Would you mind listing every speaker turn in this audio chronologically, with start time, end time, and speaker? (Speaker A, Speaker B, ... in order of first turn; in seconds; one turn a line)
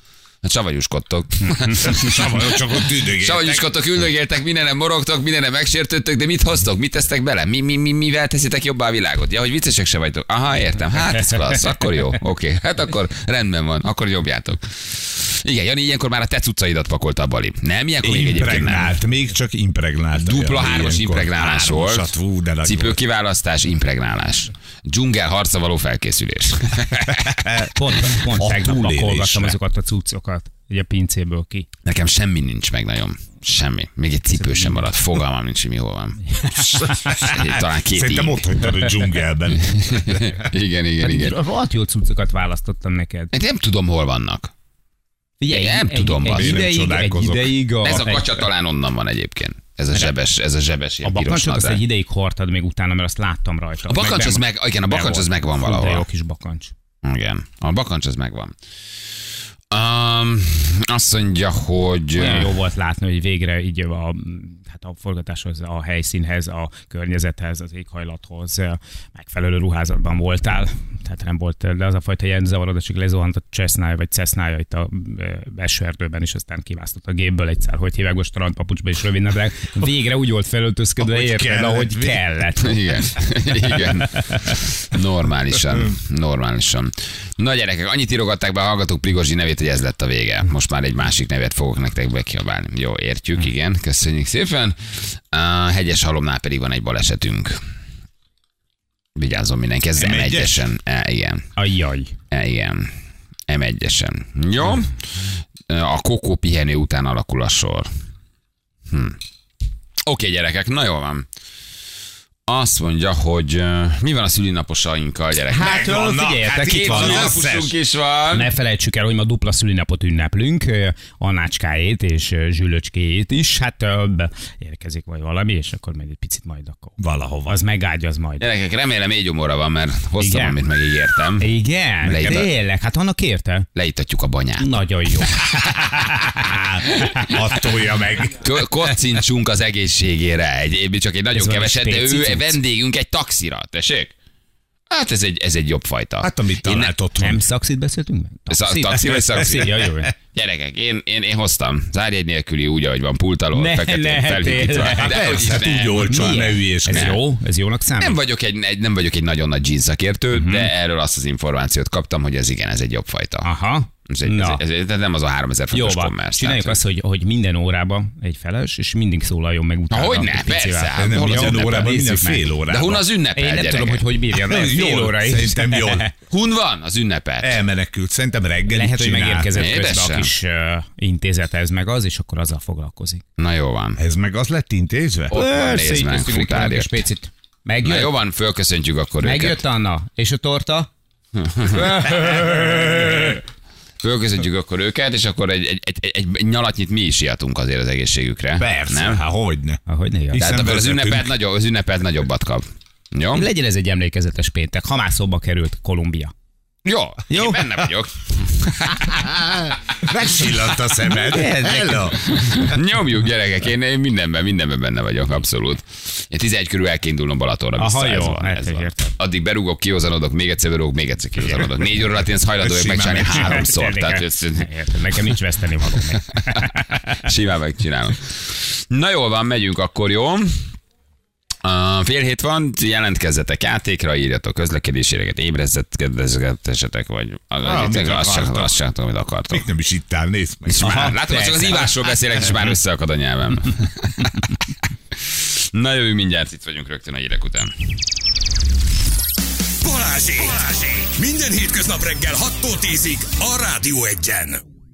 Speaker A: 0.4-19.0
Speaker B: 1.4-1.7
Speaker C: 1.7-3.6
Speaker B: 11.0-12.1
Speaker C: 18.0-23.0
Speaker A: 20.2-22.1
Speaker A: 22.6-27.3
Speaker C: 27.1-29.6
Speaker B: 27.7-31.7
Speaker A: 31.8-38.4
Speaker B: 34.3-34.9
Speaker B: 36.3-37.3
Speaker C: 37.0-40.3
Speaker A: 39.6-41.4
Speaker B: 41.0-43.3
Speaker A: 43.3-44.5
Speaker B: 45.4-48.4
Speaker A: 45.5-46.6
Speaker C: 46.3-47.5
Speaker A: 47.8-51.8
Speaker B: 51.0-56.7
Speaker A: 53.9-56.0
Speaker A: 57.0-58.5
Speaker A: 59.7-62.5
Speaker B: 62.1-82.9
Speaker C: 81.0-82.2
Speaker A: 82.6-97.6
Speaker B: 84.1-84.5
Speaker A: 99.2-101.5
Speaker C: 99.9-100.6
Speaker B: 101.5-102.1
Speaker A: 102.3-102.9
Speaker A: 103.5-105.0
Speaker A: 105.7-107.9
Speaker A: 108.9-109.2
Speaker A: 110.0-111.2
Speaker A: 112.5-115.8
Speaker B: 115.5-117.4
Speaker C: 115.5-117.7
Speaker A: 116.6-118.5
Speaker B: 118.3-128.4
Speaker C: 127.0-127.6
Speaker A: 128.4-131.5
Speaker B: 130.2-130.6
Speaker B: 131.4-133.7
Speaker C: 132.0-132.4
Speaker A: 132.0-132.5
Speaker A: 133.8-134.7
Speaker B: 134.6-137.3
Speaker C: 135.9-138.6
Speaker A: 138.4-144.1
Speaker B: 141.3-142.6
Speaker A: 144.9-146.9
Speaker C: 146.2-147.4
Speaker B: 147.2-150.1
Speaker A: 148.5-157.2
Speaker C: 149.1-149.7
Speaker B: 153.5-155.3
Speaker C: 154.9-157.2
Speaker B: 156.0-158.2
Speaker A: 158.0-163.5
Speaker B: 160.3-160.7
Speaker B: 163.4-164.6
Speaker A: 164.1-166.8
Speaker B: 165.7-172.4
Speaker A: 169.9-172.2
Speaker C: 171.0-173.1
Speaker A: 172.7-174.0
Speaker B: 173.3-176.1
Speaker C: 174.3-176.1
Speaker A: 176.3-177.6
Speaker C: 177.4-179.5
Speaker B: 178.7-183.2
Speaker A: 179.5-180.3
Speaker A: 183.4-184.0
Speaker C: 183.9-185.3
Speaker A: 185.3-187.0
Speaker B: 185.3-188.1
Speaker A: 187.8-189.6
Speaker B: 189.2-190.9
Speaker A: 191.3-193.4
Speaker B: 191.7-193.4
Speaker C: 192.5-192.8
Speaker A: 194.0-199.2
Speaker C: 198.6-201.3
Speaker B: 199.9-200.4
Speaker A: 200.4-203.4
Speaker B: 203.3-206.3
Speaker A: 206.8-209.3
Speaker B: 207.3-207.6
Speaker C: 209.1-212.2
Speaker B: 211.1-212.1
Speaker A: 212.2-224.7
Speaker B: 217.8-219.1
Speaker C: 222.6-223.7
Speaker B: 223.3-227.2
Speaker A: 227.2-230.6
Speaker A: 231.6-239.7
Speaker C: 237.6-238.7
Speaker C: 239.5-241.1
Speaker A: 240.7-244.4
Speaker B: 240.8-242.0
Speaker A: 245.1-247.7
Speaker D: 249.8-254.6